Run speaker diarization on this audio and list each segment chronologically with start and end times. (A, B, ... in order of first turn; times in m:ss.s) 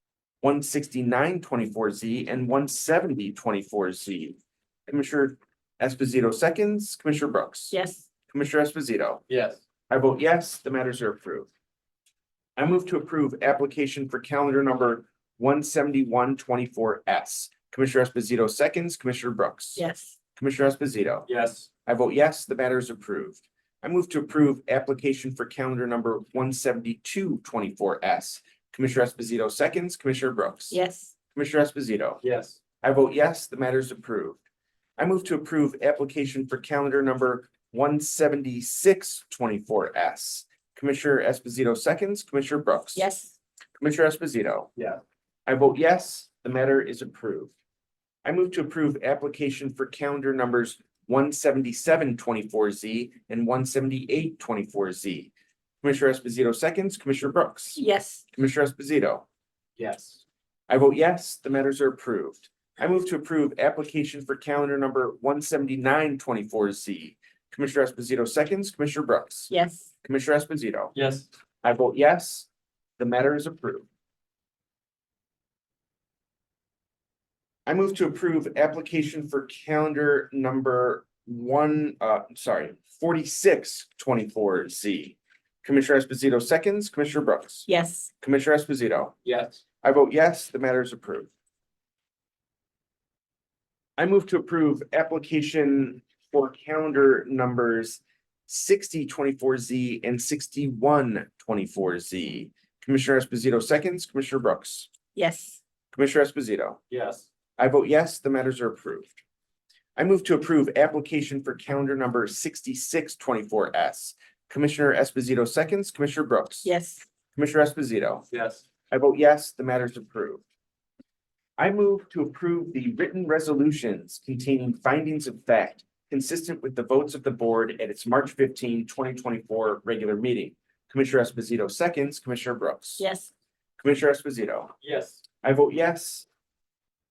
0:00.4-0:07.8 A
0:07.7-0:08.0 B
0:08.3-0:09.2 A
0:09.3-0:09.6 C
0:09.9-0:11.5 A
0:12.6-0:19.8 A
0:19.8-0:20.2 B
0:20.4-0:21.3 A
0:21.3-0:21.7 C
0:21.8-0:30.8 A
0:30.7-0:31.1 B
0:31.3-0:32.2 A
0:32.2-0:32.6 C
0:32.8-0:34.4 A
0:35.0-0:43.1 A
0:43.0-0:43.3 B
0:43.8-0:44.7 A
0:44.8-0:45.0 C
0:45.5-0:47.5 A
0:48.2-0:59.3 A
0:57.8-0:58.2 B
0:59.8-1:00.2 C
1:00.7-1:09.5 A
1:09.5-1:09.9 B
1:10.0-1:11.0 A
1:11.0-1:11.3 C
1:11.6-1:13.9 A
1:17.7-1:27.7 A
1:27.7-1:28.1 B
1:28.2-1:29.2 A
1:29.2-1:29.6 C
1:29.8-1:31.3 A
1:34.0-1:44.9 A
1:45.2-1:45.6 B
1:45.9-1:46.8 A
1:46.9-1:47.3 C
1:47.6-1:49.2 A
1:50.0-1:56.7 A
1:56.6-1:57.1 B
1:57.4-1:58.3 A
1:58.3-1:58.6 C
1:58.9-2:00.4 A
2:01.6-2:13.0 A
2:13.0-2:13.3 B
2:13.8-2:14.7 A
2:14.8-2:15.2 C
2:15.4-2:16.3 A